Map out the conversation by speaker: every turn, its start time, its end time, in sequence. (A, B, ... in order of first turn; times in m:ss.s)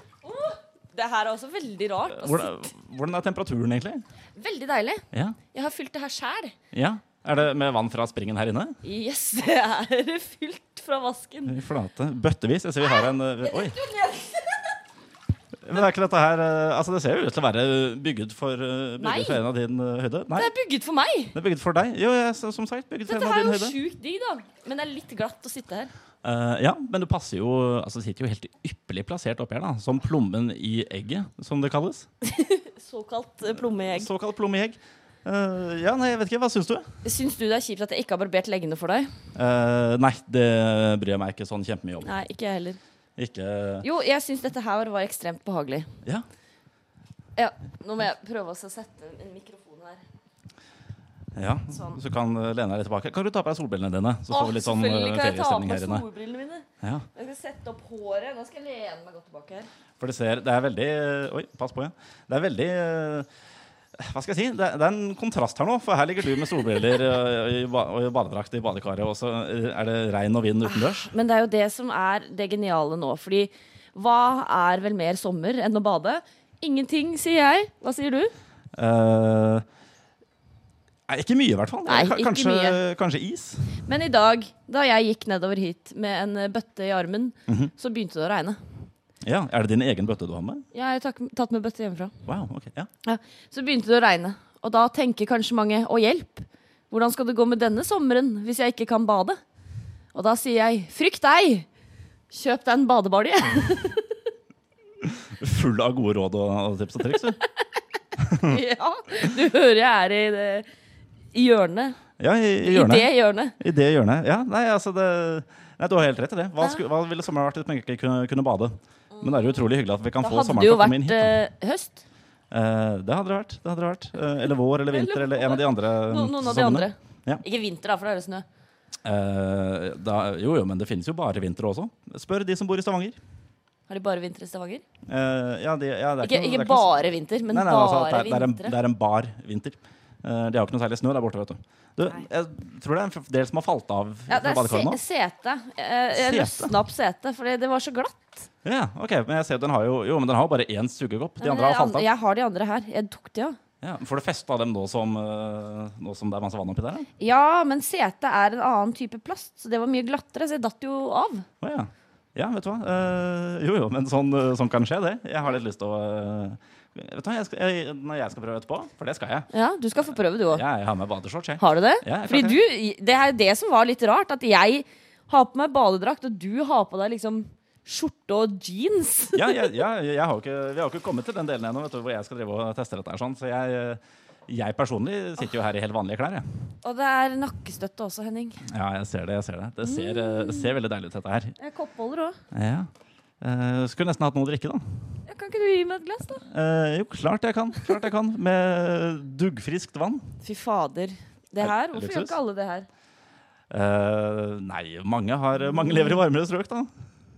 0:00.2-0:02.7 A
0:02.1-0:04.0 B
0:04.4-0:06.5 A
0:05.1-0:05.4 B
0:06.7-0:08.8 B
0:08.8-0:11.6 A
0:11.5-0:13.8 B
0:12.9-0:14.8 A
0:15.6-0:20.5 B
0:19.0-0:19.4 A
0:20.4-0:21.4 A
0:21.4-0:23.8 B
0:23.1-0:25.9 A
0:26.2-0:32.1 B
0:32.2-0:34.1 A
0:33.6-0:36.9 B
0:37.0-0:39.1 A
0:39.4-0:42.1 B
0:42.0-0:42.8 A
0:43.2-0:43.9 B
0:43.8-0:45.9 A
0:47.4-0:50.0 A
0:51.4-0:56.1 B
0:51.7-0:52.0 A
0:54.3-0:59.7 A
0:56.8-0:57.1 B
1:00.0-1:03.3 B
1:04.0-1:11.1 B
1:10.7-1:18.3 A
1:18.8-1:19.6 B
1:21.1-1:23.8 B
1:21.9-1:22.8 A
1:23.9-1:28.6 A
1:27.5-1:27.7 B
1:29.2-1:30.6 B
1:30.7-1:32.1 A
1:32.3-1:32.9 B
1:33.0-1:39.4 A
1:40.1-1:41.7 A
1:42.3-1:44.1 A
1:45.0-1:47.4 B
1:48.2-1:48.6 B
1:48.4-1:50.7 A
1:51.3-1:52.0 A
1:52.2-2:01.4 B
1:52.6-1:53.6 A
1:59.1-1:59.6 A
2:00.2-2:02.0 A
2:02.5-2:07.4 B
2:04.9-2:08.4 A
2:09.0-2:13.2 B
2:13.9-2:14.8 A
2:15.1-2:25.0 B
2:16.2-2:18.8 A
2:24.3-2:28.5 A
2:26.1-2:26.8 B
2:28.6-2:32.1 B
2:31.4-2:33.6 A
2:33.8-2:37.1 B
2:37.2-2:41.5 A
2:41.6-2:52.6 B
2:49.5-2:50.6 A
2:51.6-2:59.8 A
2:59.3-3:06.4 B
3:06.8-3:08.6 A
3:08.7-3:11.5 B
3:09.8-3:10.7 A
3:11.6-3:12.4 A
3:12.5-3:12.9 B
3:13.4-3:14.8 B
3:15.3-3:16.4 A
3:16.5-3:20.3 B
3:20.4-3:22.9 A
3:21.6-3:22.4 B
3:23.7-3:26.9 B